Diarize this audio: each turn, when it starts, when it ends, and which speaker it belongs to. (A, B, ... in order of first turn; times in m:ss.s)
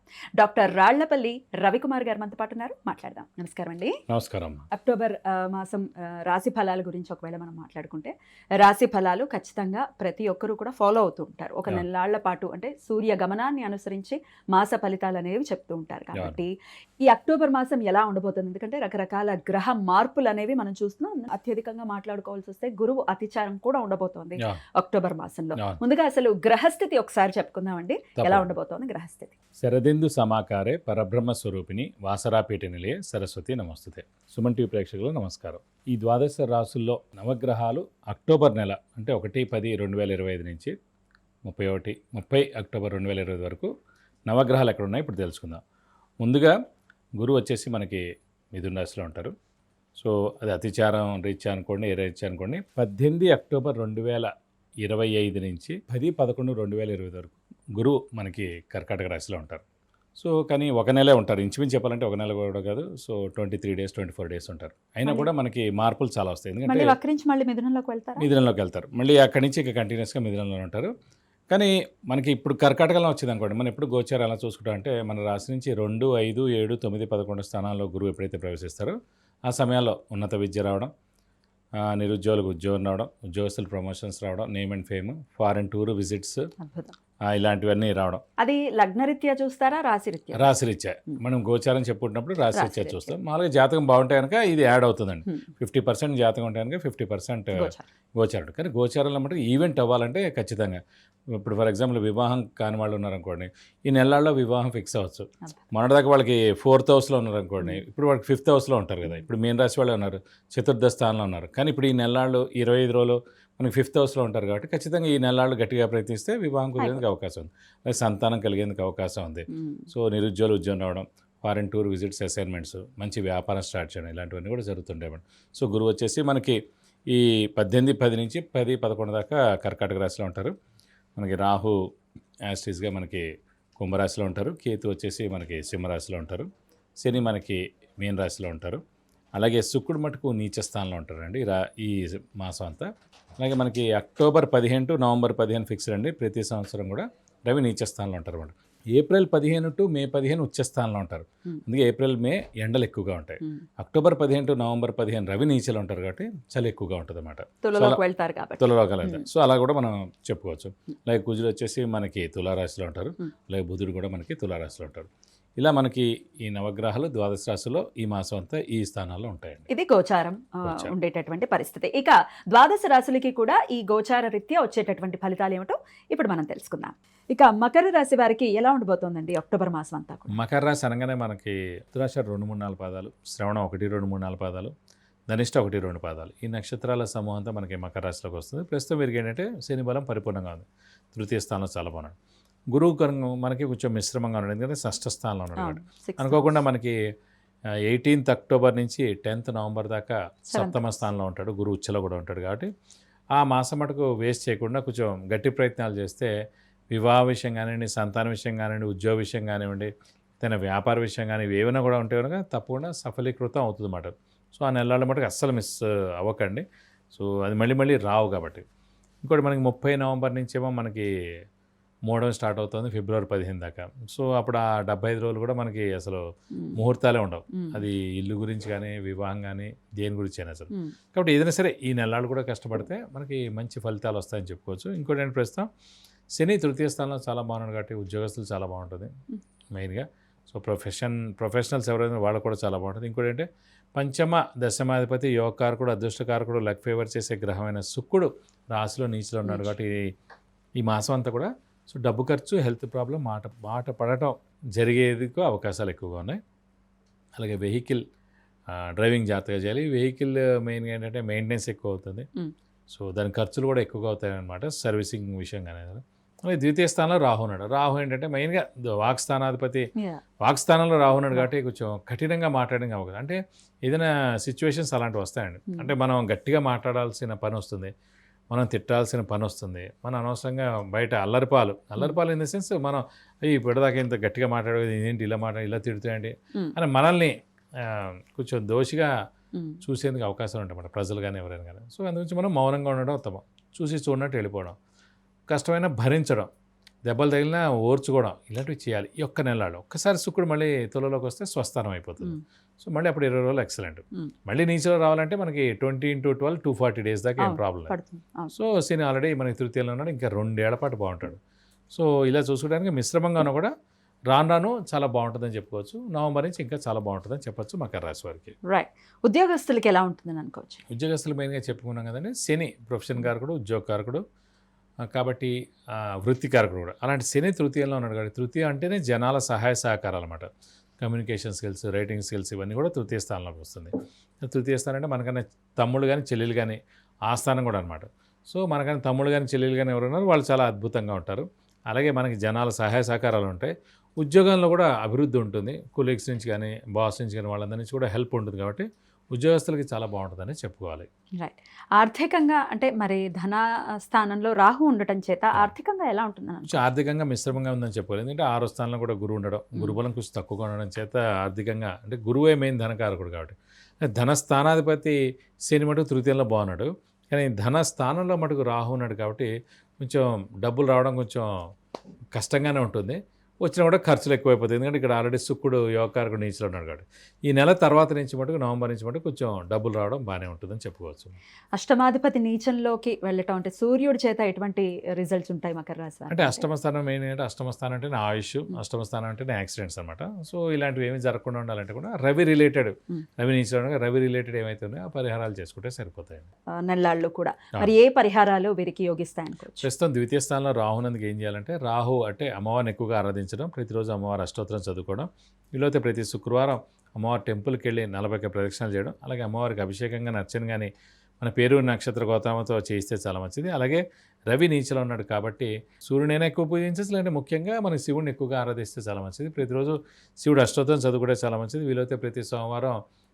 0:00.4-0:04.0 A
0:04.1-0:04.6 B
0:04.7-0:16.5 A
0:16.1-0:16.4 B
0:17.0-0:29.4 A
0:28.2-0:28.5 B
0:29.6-0:40.8 B
0:41.4-0:43.7 B
0:44.3-0:45.6 B
0:46.2-0:46.6 B
0:47.2-0:49.3 B
0:50.0-0:54.3 B
0:54.8-0:59.6 B
1:00.2-1:07.0 B
1:05.0-1:05.3 A
1:06.7-1:08.3 A
1:08.2-1:10.9 B
1:11.5-1:19.0 B
1:19.5-1:20.9 B
1:21.9-1:26.4 B
1:26.6-1:27.0 A
1:27.2-1:28.2 B
1:28.4-1:30.6 A
1:30.3-1:40.8 B
1:32.5-1:33.2 A
1:37.5-1:37.8 A
1:41.3-2:06.6 B
1:56.8-1:57.0 A
1:59.5-1:59.9 A
2:07.1-2:10.5 B
2:11.2-2:11.8 B
2:12.5-2:13.2 B
2:13.8-2:16.5 B
2:17.0-2:18.8 B
2:19.4-2:38.0 B
2:37.6-2:39.2 A
2:38.6-2:49.7 B
2:49.7-3:00.4 A
2:50.6-2:50.9 B
3:00.3-3:04.7 B
3:05.3-3:12.2 B
3:12.7-3:17.0 B
3:15.6-3:16.6 A
3:17.8-3:22.7 B
3:20.5-3:21.0 A
3:23.4-3:26.3 B
3:26.9-3:38.6 B
3:39.2-3:41.1 B
3:42.1-3:55.7 B
3:46.5-3:46.8 A
3:47.5-3:47.8 A
3:56.4-3:59.1 B
3:59.7-4:10.0 B
4:09.4-4:09.7 A
4:10.8-4:16.4 B
4:17.4-4:18.0 B
4:18.7-4:22.3 B
4:22.9-4:29.8 B
4:30.0-4:30.2 A
4:30.4-4:37.9 B
4:38.5-4:49.1 B
4:49.5-4:49.8 A
4:49.8-4:54.8 B
4:55.5-4:56.5 B
4:57.1-5:08.0 B
5:07.4-5:08.6 A
5:08.5-5:11.4 B
5:11.9-5:13.7 B
5:14.3-5:18.6 B
5:18.7-5:20.8 A
5:20.9-5:24.2 B
5:25.1-5:30.5 B
5:31.0-5:33.9 B
5:34.4-5:51.1 B
5:51.4-5:56.8 A
5:56.7-6:11.5 B
6:12.3-6:21.4 B
6:21.8-6:26.7 A
6:26.3-6:36.5 B
6:36.8-6:39.9 A
6:39.8-7:03.0 B